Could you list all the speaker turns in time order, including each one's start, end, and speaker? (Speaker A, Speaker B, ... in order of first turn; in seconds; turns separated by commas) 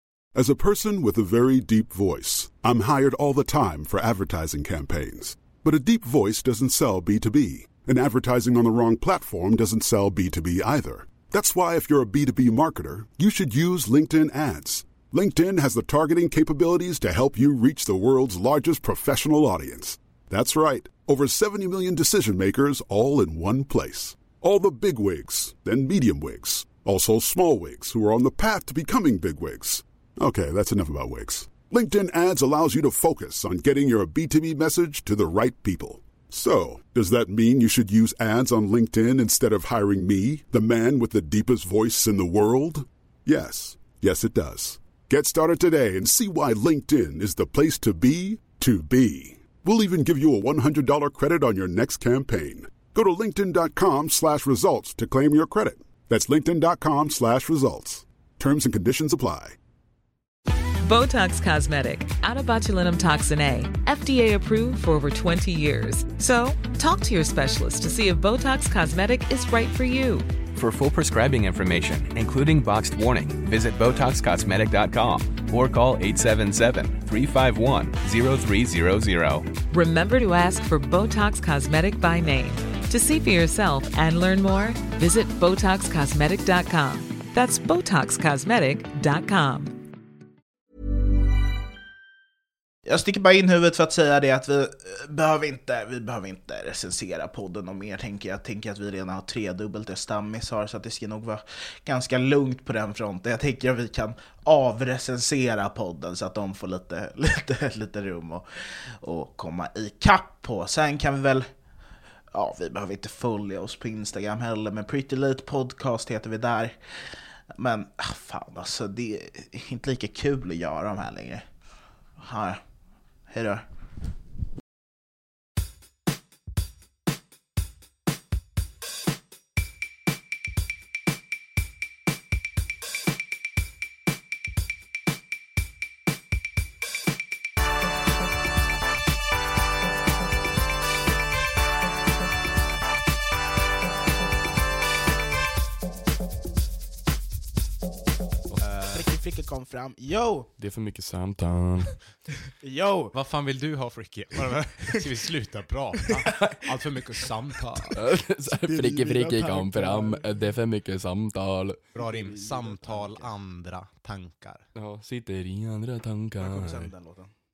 Speaker A: 0.3-59.6, Speaker B: 60.8-70.3, Speaker C: 70.5-79.5, Speaker B: 79.7-89.7, Speaker D: 92.8-108.4, Speaker D: 109.0-121.6, Speaker D: 122.1-123.6, Speaker E: 148.6-149.1, Speaker D: 148.9-150.5, Speaker F: 150.6-152.0, Speaker D: 152.6-153.1, Speaker E: 153.1-157.9, Speaker F: 157.9-161.8, Speaker D: 158.6-160.2, Speaker D: 161.9-163.3, Speaker E: 161.9-164.7, Speaker F: 164.7-166.9, Speaker D: 166.4-167.3